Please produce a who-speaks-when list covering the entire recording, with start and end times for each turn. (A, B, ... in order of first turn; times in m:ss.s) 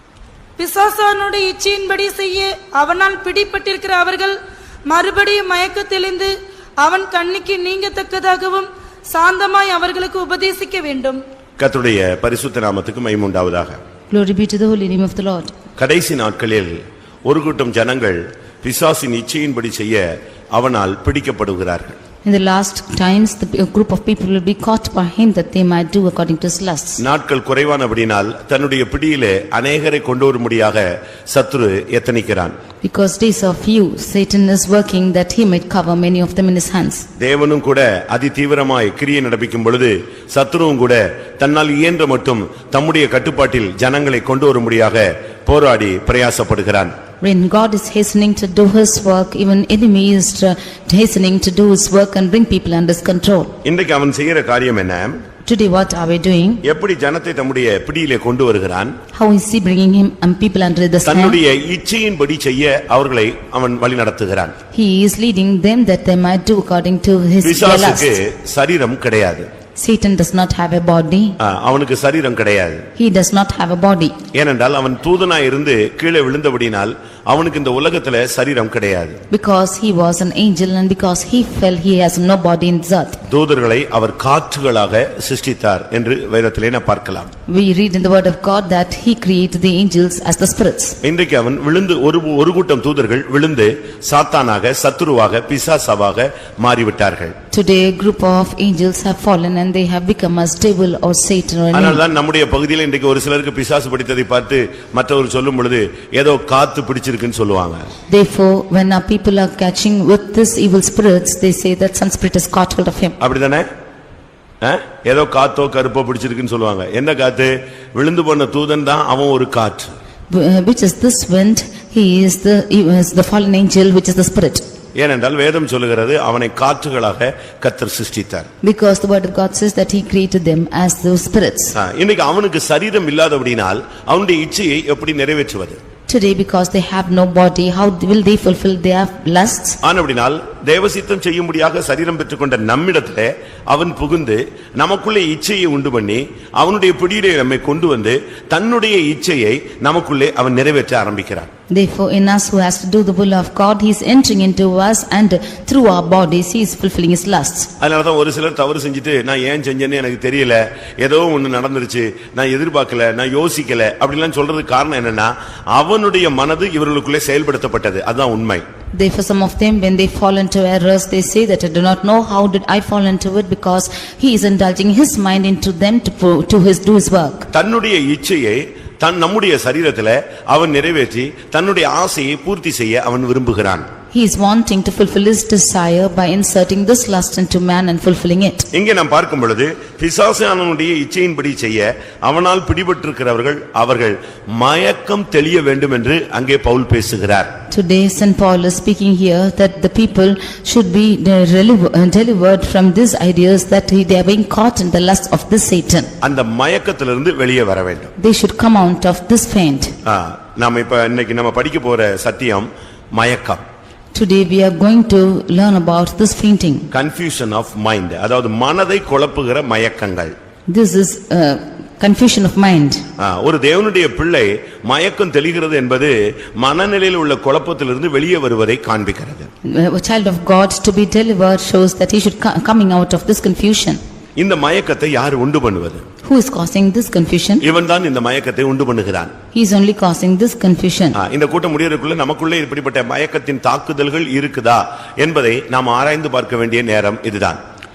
0:00.6-0:11.2 A
0:11.6-0:13.8 B
0:14.1-0:15.5 C
0:15.8-0:22.0 B
0:22.2-0:27.0 C
0:27.0-0:32.6 B
0:32.8-0:37.1 C
0:37.2-0:47.0 B
0:47.2-0:53.5 C
0:53.6-0:55.2 B
0:55.4-0:56.6 C
0:56.6-0:58.9 B
0:59.1-1:01.4 C
1:01.0-1:04.5 B
1:04.7-1:08.1 C
1:07.4-1:09.5 B
1:09.8-1:11.4 C
1:11.4-1:12.9 B
1:13.0-1:14.2 C
1:14.3-1:19.2 B
1:19.3-1:23.2 C
1:23.3-1:27.3 B
1:27.5-1:31.0 C
1:31.0-1:37.3 B
1:37.5-1:42.0 C
1:41.7-1:47.9 B
1:48.1-1:53.2 C
1:53.2-1:53.7 B
1:54.6-1:59.9 B
2:00.3-2:04.6 C
2:05.0-2:08.5 B
2:08.6-2:11.8 C
2:11.8-2:15.8 B
2:16.1-2:19.8 C
2:19.8-2:31.5 B
2:31.7-2:37.7 C
2:37.8-2:48.6 B
2:48.9-2:57.5 C
2:57.5-3:03.9 B
3:04.1-3:08.7 C
3:08.7-3:17.5 B
3:17.7-3:26.1 C
3:26.2-3:28.1 B
3:28.2-3:29.9 C
3:30.0-3:33.6 B
3:34.1-3:36.9 C
3:36.9-3:40.3 B
3:40.7-3:43.0 C
3:43.2-3:49.5 B
3:49.6-3:54.0 C
3:54.4-3:56.0 B
3:56.2-3:57.6 C
3:57.6-3:59.3 B
3:59.5-4:01.2 C
4:01.2-4:07.6 B